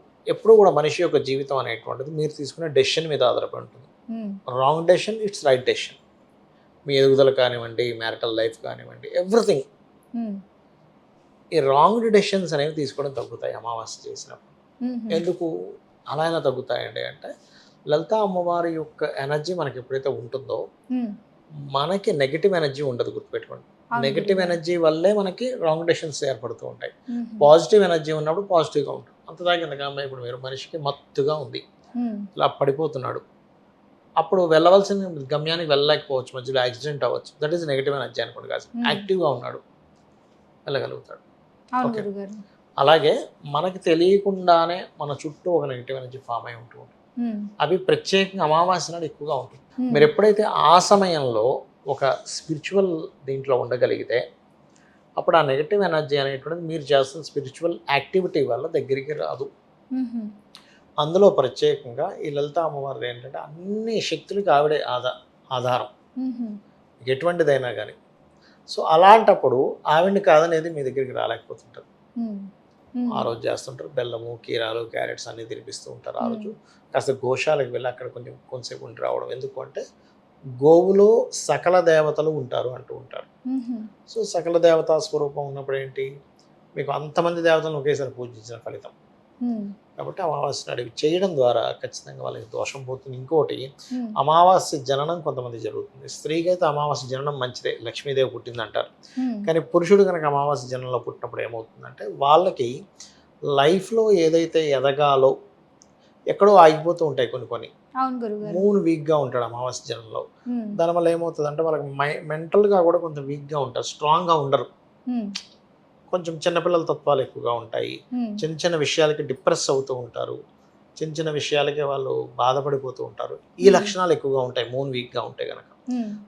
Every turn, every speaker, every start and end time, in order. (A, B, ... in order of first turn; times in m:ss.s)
0:00.3-0:03.9 A
0:04.5-0:06.0 A
0:06.9-0:09.6 A
0:11.6-0:14.5 A
0:14.8-0:15.2 B
0:15.1-0:15.5 A
0:16.1-0:17.3 A
0:17.9-0:20.6 A
0:21.7-0:31.6 A
0:23.9-0:24.6 B
0:27.1-0:27.5 B
0:32.0-0:32.3 B
0:32.4-0:33.2 A
0:34.2-0:39.6 A
0:38.8-0:39.0 B
0:40.7-0:41.2 A
0:41.8-0:42.4 B
0:42.8-0:46.9 A
0:47.2-0:47.5 B
0:47.6-0:54.2 A
0:49.8-0:50.1 B
0:55.2-0:59.5 A
0:59.9-1:00.3 B
1:01.0-1:05.9 A
1:06.2-1:06.6 B
1:07.0-1:08.0 A
1:08.7-1:11.8 A
1:12.2-1:13.3 B
1:13.1-1:19.8 A
1:16.2-1:16.5 B
1:20.6-1:23.3 A
1:23.5-1:23.9 B
1:24.1-1:26.1 A
1:26.8-1:28.9 A
1:29.4-1:29.7 B
1:30.0-1:38.9 A
1:39.2-1:39.5 B
1:39.4-1:42.7 A
1:43.5-1:45.3 A
1:46.3-1:47.7 A
1:48.0-1:48.6 B
1:48.4-1:54.7 A
1:50.5-1:50.8 B
1:56.1-2:00.4 A
1:58.1-1:58.4 B
2:01.0-2:05.7 A
2:03.6-2:03.9 B